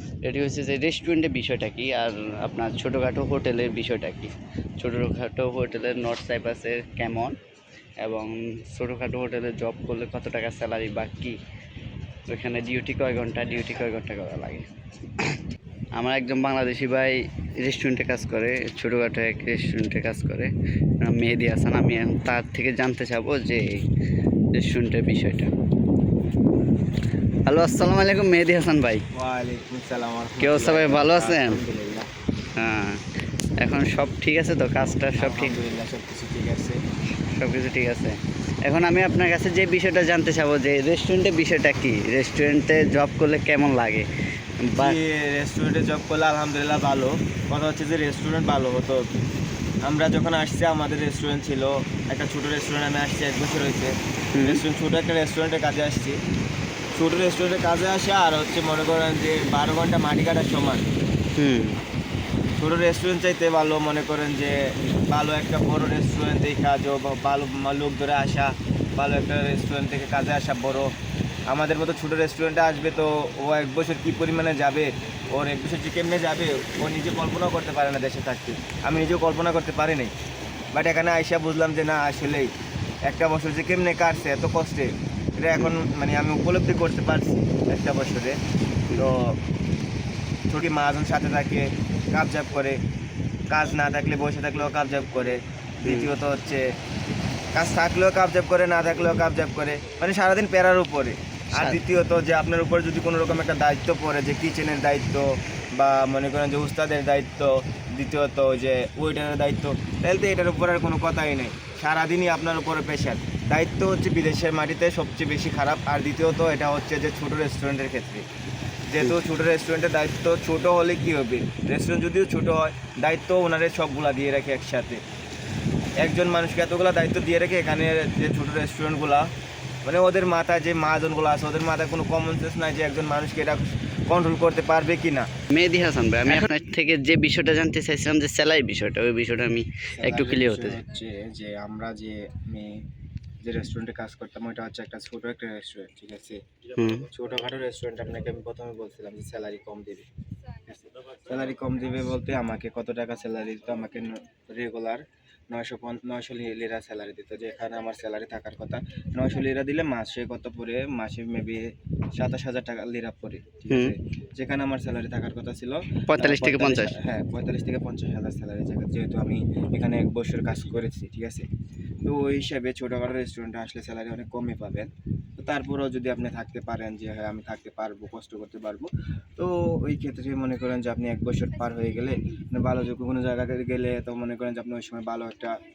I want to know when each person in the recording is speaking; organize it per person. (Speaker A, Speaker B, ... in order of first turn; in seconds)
Speaker A: 0.2-7.4, 8.0-11.4, 12.3-14.7, 15.9-23.8, 24.6-25.5, 27.4-29.1, 30.4-31.6, 32.6-33.0, 33.6-35.6, 37.2-44.1, 44.6-45.0, 54.3-54.6, 61.4-61.8, 95.8-96.1, 101.5-101.8, 135.5-140.8, 146.8-147.1, 166.1-166.9
Speaker B: 29.1-32.1, 35.2-36.8, 44.8-49.1, 49.8-56.2, 56.9-60.9, 62.6-70.9, 71.5-80.1, 80.7-82.5, 83.1-88.4, 88.9-89.4, 90.5-92.8, 93.5-96.7, 97.5-118.2, 118.9-125.0, 126.0-129.3, 129.8-135.3, 140.0-142.8, 143.4-146.4, 146.9-150.1, 150.7-171.5, 172.0-185.6